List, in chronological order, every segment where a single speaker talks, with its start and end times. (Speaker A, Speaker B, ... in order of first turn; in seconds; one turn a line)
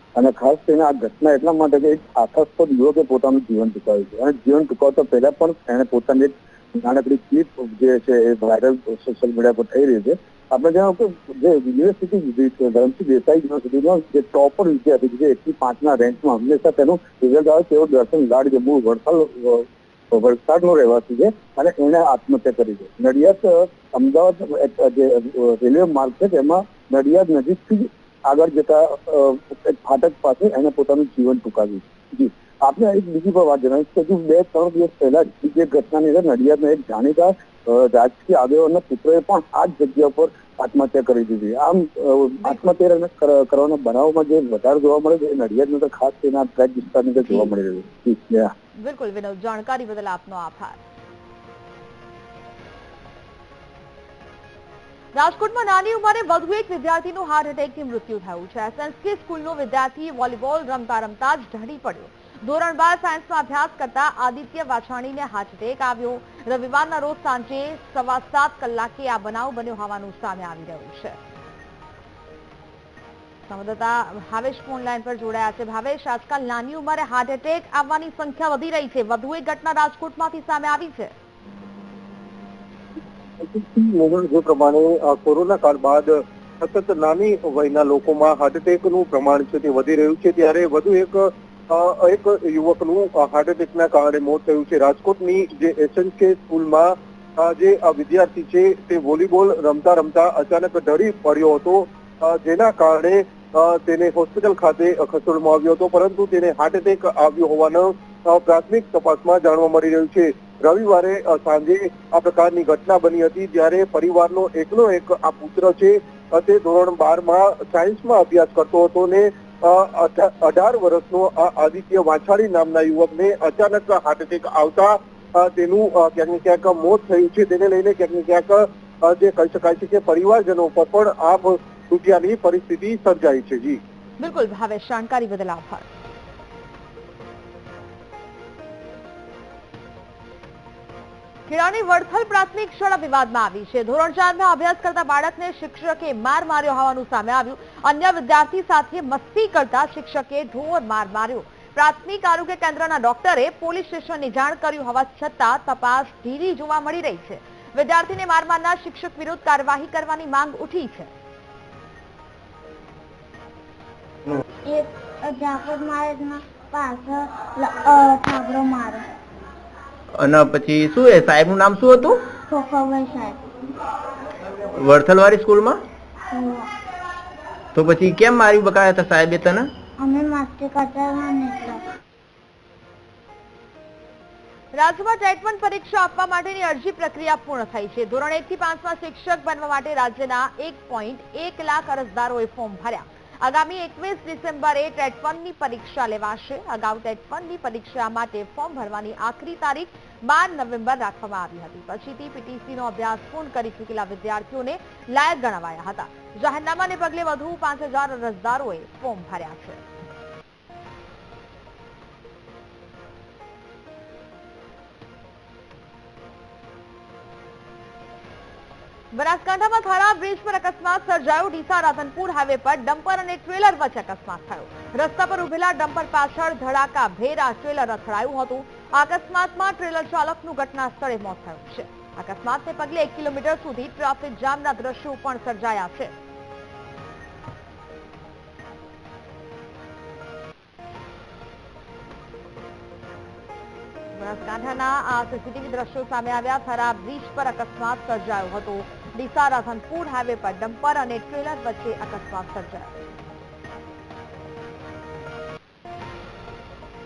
Speaker A: 0.1-48.5
Speaker B: 48.8-50.8
Speaker B: 55.1-71.2
Speaker B: 73.5-81.1
Speaker C: 83.4-133.8
Speaker B: 134.2-135.8
Speaker B: 141.5-161.1
Speaker D: 164.7-169.1
Speaker E: 170.1-172.3
Speaker D: 172.5-173.4
Speaker E: 174.7-175.8
Speaker D: 176.3-176.7
Speaker E: 177.7-179.7
Speaker D: 180.0-181.8
Speaker B: 184.7-209.8
Speaker B: 219.1-236.1
Speaker B: 244.2-252.9